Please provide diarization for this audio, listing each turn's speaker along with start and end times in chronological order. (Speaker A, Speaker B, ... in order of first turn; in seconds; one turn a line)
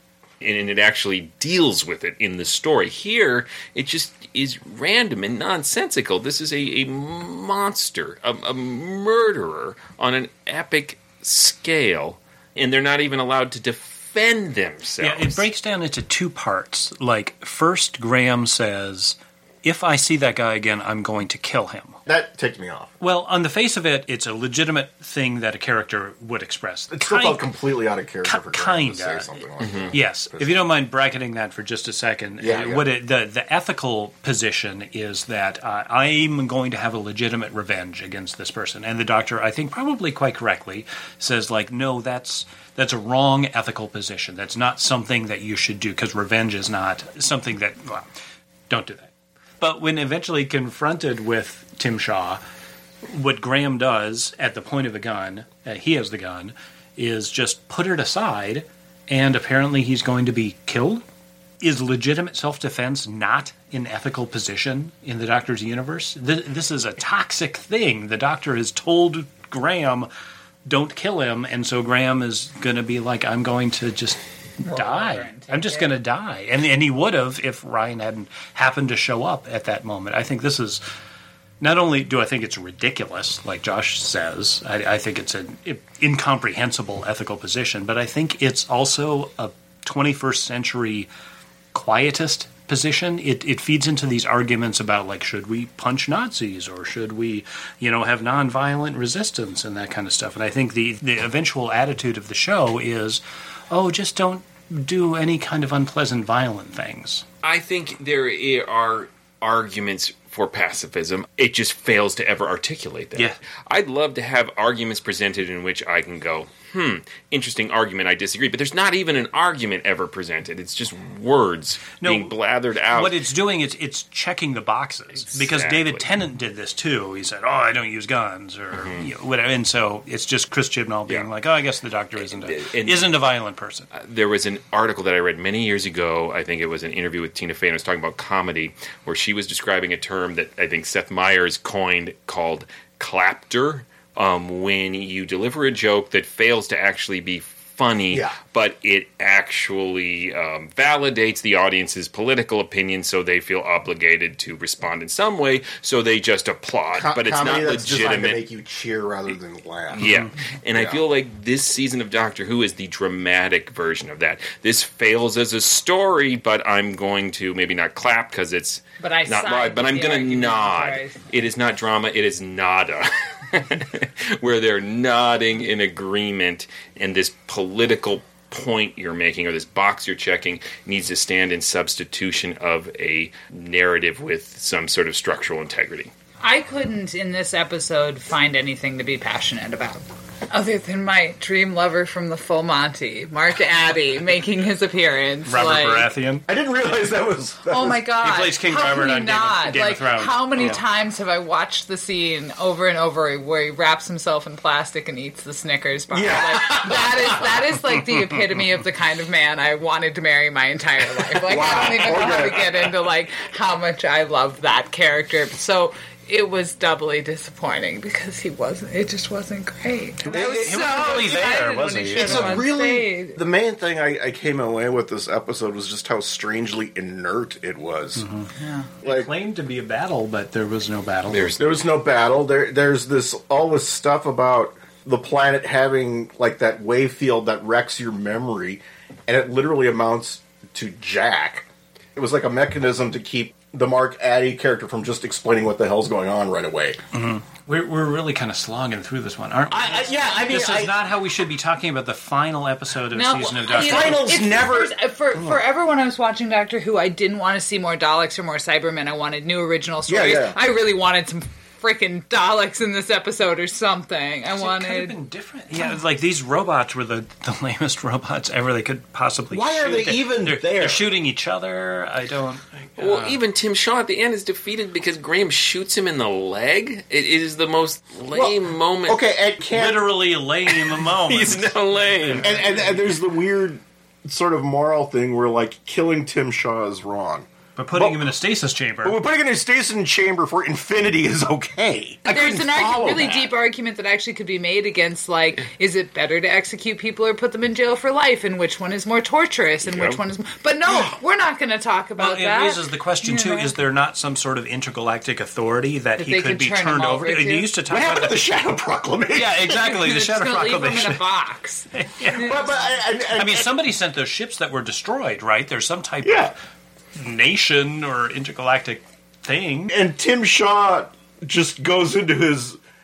Speaker A: 0.4-15.4
Speaker B: 15.0-22.0
Speaker C: 22.1-22.9
Speaker B: 23.0-27.5
Speaker C: 26.9-30.7
Speaker B: 28.2-29.4
Speaker A: 29.6-29.9
Speaker B: 29.9-48.1
Speaker C: 32.4-32.9
Speaker B: 48.7-52.4
Speaker B: 53.1-61.0
Speaker B: 61.6-70.1
Speaker B: 70.7-80.8
Speaker D: 74.7-75.9
Speaker B: 81.6-91.1
Speaker B: 91.7-107.2
Speaker A: 107.4-123.2
Speaker B: 122.0-122.3
Speaker B: 122.9-133.9
Speaker A: 125.2-126.0
Speaker A: 128.8-129.1
Speaker A: 132.2-133.2
Speaker A: 133.9-158.4
Speaker C: 148.1-148.4
Speaker C: 156.9-160.1
Speaker A: 159.9-186.1
Speaker B: 160.0-160.3
Speaker C: 160.7-161.0
Speaker D: 169.0-171.2
Speaker D: 186.4-196.1
Speaker B: 195.4-196.4
Speaker C: 196.5-198.0
Speaker D: 197.7-223.4
Speaker B: 198.2-200.8
Speaker C: 206.1-207.7
Speaker C: 211.4-212.8
Speaker B: 220.2-222.7
Speaker C: 220.3-221.1
Speaker C: 222.1-228.3
Speaker B: 228.2-228.5
Speaker D: 228.6-228.9
Speaker B: 229.0-231.5
Speaker C: 229.0-229.3
Speaker A: 231.3-231.9
Speaker C: 231.6-247.0
Speaker B: 247.1-254.3
Speaker C: 249.7-250.9
Speaker D: 253.1-265.1
Speaker C: 253.7-254.9
Speaker C: 260.1-260.6
Speaker B: 264.5-273.4
Speaker C: 269.5-271.1
Speaker A: 273.0-279.2
Speaker C: 278.3-280.1
Speaker B: 279.7-283.0
Speaker A: 280.7-282.5
Speaker C: 282.4-288.3
Speaker B: 287.8-289.2
Speaker C: 289.0-293.5
Speaker D: 292.2-303.7
Speaker A: 299.8-300.2
Speaker B: 302.2-308.4
Speaker D: 306.2-307.7
Speaker C: 307.9-309.8
Speaker B: 309.3-311.2
Speaker D: 309.8-312.8
Speaker B: 311.9-312.6
Speaker C: 312.3-313.8
Speaker B: 313.3-316.6
Speaker C: 316.2-316.5
Speaker B: 317.1-319.9
Speaker C: 319.9-322.8